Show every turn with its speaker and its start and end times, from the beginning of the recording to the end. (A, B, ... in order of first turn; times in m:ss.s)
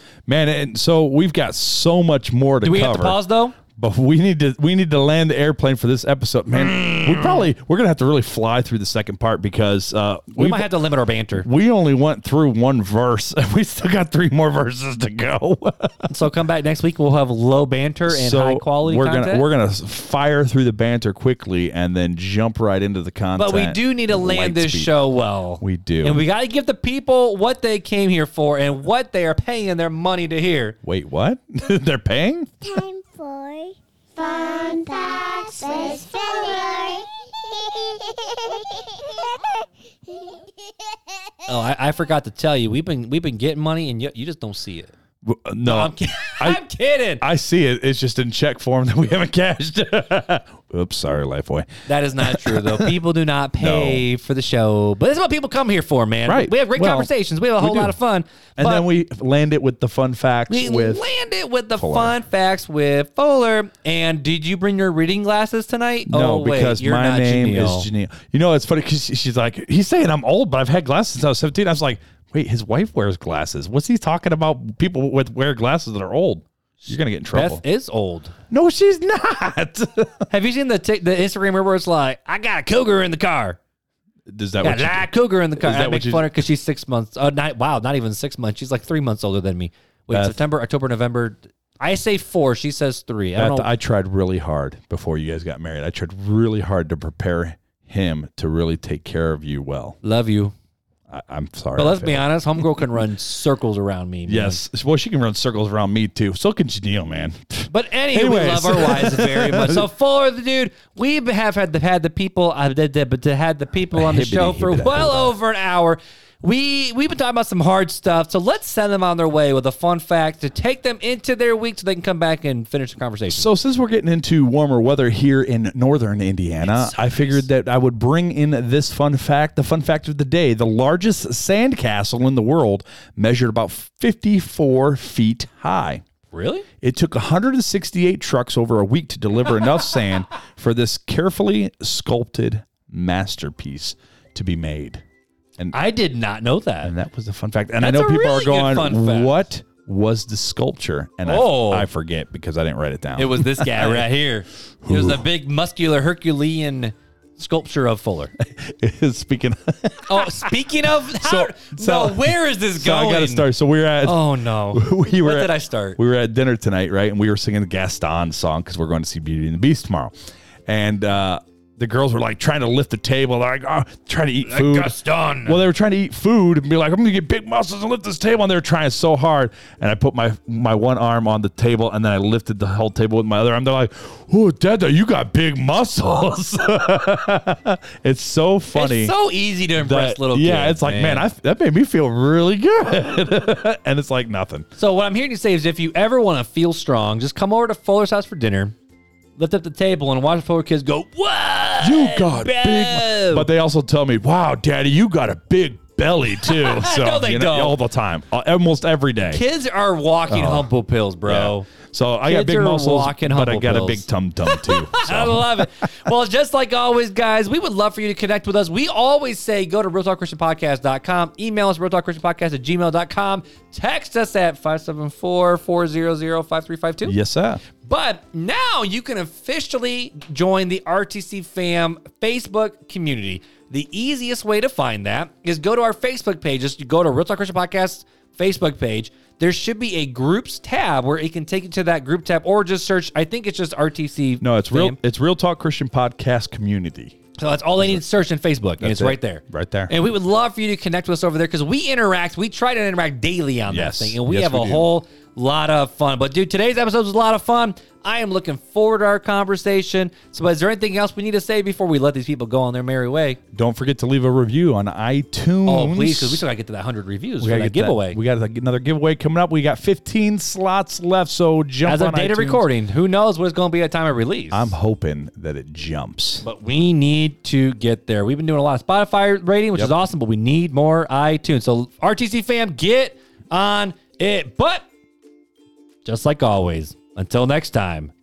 0:00.3-0:10.7 A
0:02.6-0:03.6 B
0:06.5-0:07.5 B
0:10.3-0:11.5 B
0:11.4-0:16.1 A
0:16.1-0:19.4 B
0:18.1-0:25.0 A
0:23.4-0:30.8 B
0:25.6-0:26.2 A
0:30.8-0:32.5 A
0:32.6-0:41.0 C
0:41.5-0:44.9 B
0:45.2-0:46.6 A
0:45.6-0:47.2 B
0:47.2-0:52.9 A
0:51.9-0:58.9 B
0:53.6-0:54.0 A
0:56.2-0:57.9 A
0:58.6-1:01.1 A
1:00.5-1:07.9 B
1:01.8-1:02.2 A
1:06.1-1:17.6 A
1:16.8-1:18.3 B
1:18.5-1:20.3 A
1:20.3-1:23.6 B
1:24.3-1:26.3 A
1:24.6-1:33.7 B
1:30.1-1:30.4 A
1:33.4-1:40.0 A
1:40.0-1:40.5 B
1:41.1-1:42.9 A
1:41.7-1:44.6 B
1:44.3-1:49.9 A
1:47.7-2:03.5 B
1:53.9-1:55.3 A
2:03.3-2:16.0 A
2:06.6-2:07.4 B
2:16.3-2:16.6 B
2:16.8-2:25.0 A
2:25.7-2:26.9 B
2:26.8-2:34.1 A
2:27.8-2:29.3 B
2:31.2-2:31.9 B
2:33.2-2:38.3 B
2:34.8-2:35.2 A
2:38.4-2:40.5 A
2:40.1-2:43.5 B
2:41.0-2:50.1 A
2:44.0-2:46.0 B
2:50.6-3:09.1 A
2:54.4-2:55.6 B
3:08.7-3:11.3 B
3:09.8-3:14.7 A
3:14.8-3:18.7 B
3:19.4-3:23.5 B
3:21.8-3:29.4 A
3:26.4-3:27.8 B
3:29.3-3:31.7 B
3:30.3-3:30.7 A
3:31.2-3:35.9 A
3:32.2-3:47.1 B
3:47.0-3:47.6 A
3:47.8-4:05.0 B
4:04.4-4:07.2 A
4:07.4-4:23.4 B
4:08.8-4:09.9 A
4:13.7-4:14.9 A
4:23.5-4:26.4 A
4:25.6-4:28.2 B
4:27.4-4:32.6 A
4:31.8-4:34.7 B
4:34.5-4:36.4 A
4:36.4-4:44.9 B
4:46.0-4:48.1 B